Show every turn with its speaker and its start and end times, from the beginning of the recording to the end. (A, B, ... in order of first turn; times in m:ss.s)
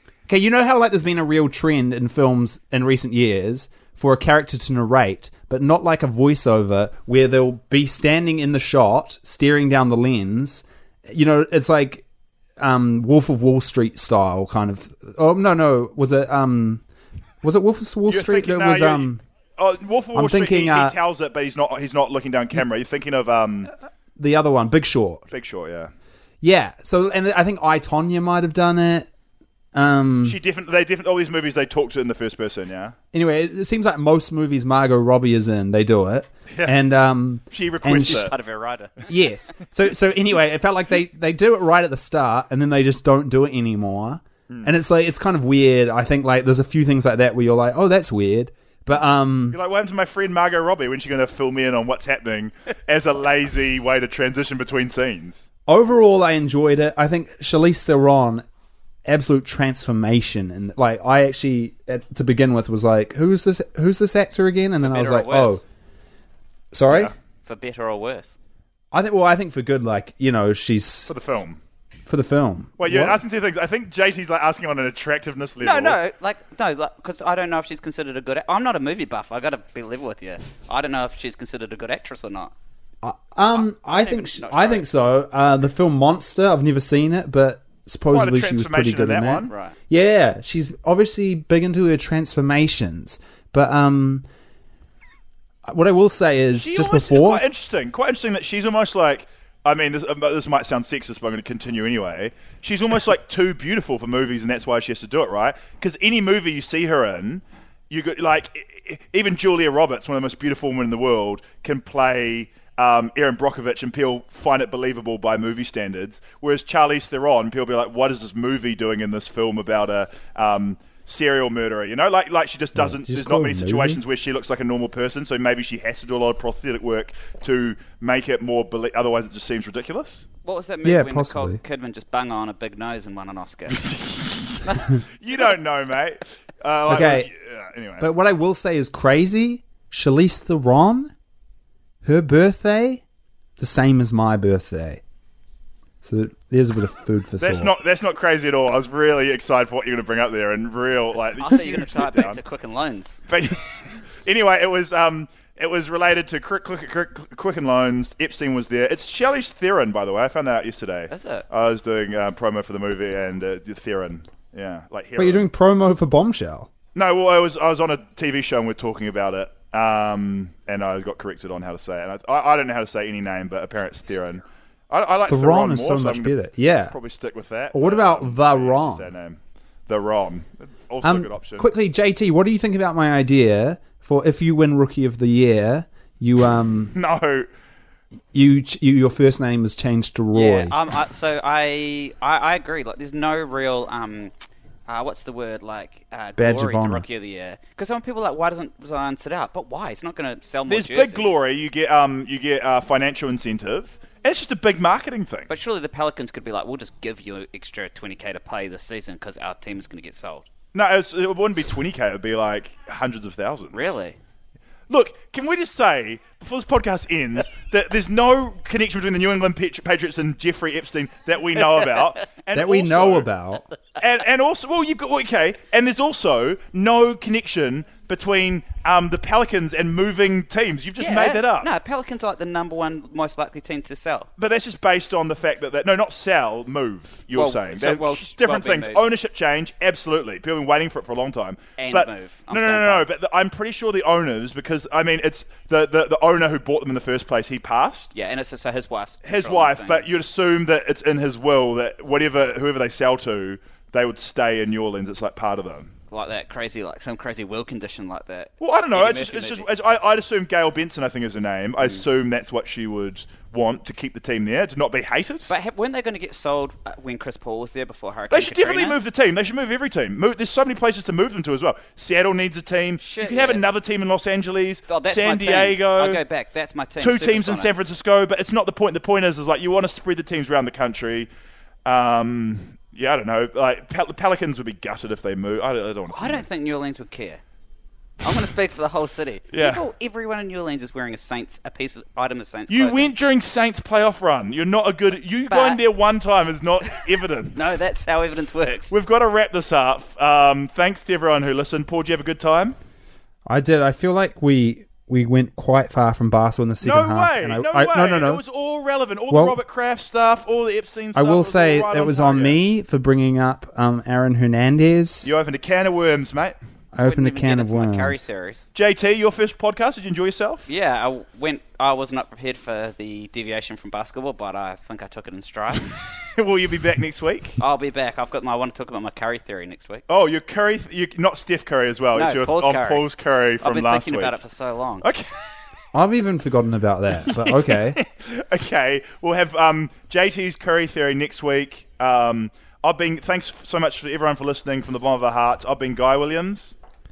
0:00.3-0:12.0 A
0:12.6-0:16.8 A
0:17.4-0:19.2 A
0:18.1-0:23.7 B
0:20.1-0:21.0 A
0:24.2-0:25.2 A
0:25.3-0:25.9 B
0:26.4-0:29.1 A
0:29.7-0:30.4 A
0:30.2-0:32.9 B
0:33.1-0:38.3 A
0:36.5-0:36.7 B
0:37.5-0:38.3 B
0:38.0-0:39.1 C
0:39.1-0:49.6 A
0:44.5-0:44.7 B
0:49.5-0:55.5 B
0:55.7-0:58.4 A
0:59.0-1:05.6 A
1:04.8-1:05.6 C
1:06.7-1:07.1 A
1:07.4-1:08.4 C
1:08.9-1:11.1 A
1:11.1-1:11.6 B
1:12.0-1:13.2 A
1:12.8-1:16.0 B
1:15.6-1:22.5 C
1:23.0-1:34.2 A
1:23.8-1:24.9 C
1:28.1-1:29.5 B
1:29.5-1:29.8 C
1:35.6-1:37.4 A
1:36.5-2:10.3 B
2:02.7-2:04.0 A
2:10.4-2:13.9 C
2:10.8-2:11.6 A
2:13.7-2:14.6 B
2:14.6-2:15.5 C
2:15.2-2:18.1 B
2:16.9-2:17.3 A
2:18.0-2:21.1 A
2:22.0-2:23.0 A
2:23.6-2:25.0 A
2:26.0-2:27.7 A
2:27.4-2:32.4 B
2:31.4-2:33.2 C
2:33.3-2:33.6 B
2:34.2-2:45.4 B
2:41.1-2:41.4 C
2:45.2-2:46.7 A
2:46.9-3:01.7 B
2:55.3-2:56.9 A
2:57.7-2:59.1 A
3:01.0-3:06.9 A
3:06.9-3:07.5 B
3:08.3-3:10.7 A
3:10.3-3:14.3 C
3:14.9-3:21.4 C
3:16.4-3:17.0 A
3:20.7-3:25.5 B
3:25.5-3:30.5 C
3:30.7-3:34.0 B
3:33.7-3:34.2 C
3:34.9-3:43.3 B
3:42.5-3:43.7 A
3:44.0-3:51.7 B
3:51.0-3:54.3 C
3:54.4-4:08.1 B
3:57.3-3:59.1 C
4:01.8-4:03.1 C
4:08.1-4:10.0 C
4:09.2-4:15.9 B
4:16.1-4:19.7 C
4:18.6-4:25.5 B
4:25.5-4:29.0 C
4:28.3-4:36.2 B
4:33.0-4:33.6 C
4:34.9-4:37.8 C
4:37.0-4:41.3 B
4:41.8-4:46.4 B
4:46.1-4:47.4 C
4:48.2-4:53.1 C
4:49.5-4:49.8 B
4:52.7-4:57.8 B
4:55.5-4:55.8 C
4:57.5-4:58.9 C
4:58.9-5:02.8 B
5:03.4-5:08.4 A
5:06.8-5:12.6 B
5:09.3-5:09.6 A
5:11.1-5:15.3 A
5:15.2-5:16.6 B
5:16.9-5:18.2 A
5:17.0-5:18.7 C
5:18.7-5:20.7 B
5:20.7-5:25.9 C
5:26.2-5:27.6 B
5:27.6-5:30.0 C
5:30.1-5:34.4 B
5:32.1-5:33.0 C
5:33.6-5:35.1 C
5:35.0-5:35.4 B
5:35.9-5:38.0 A
5:37.2-5:46.8 B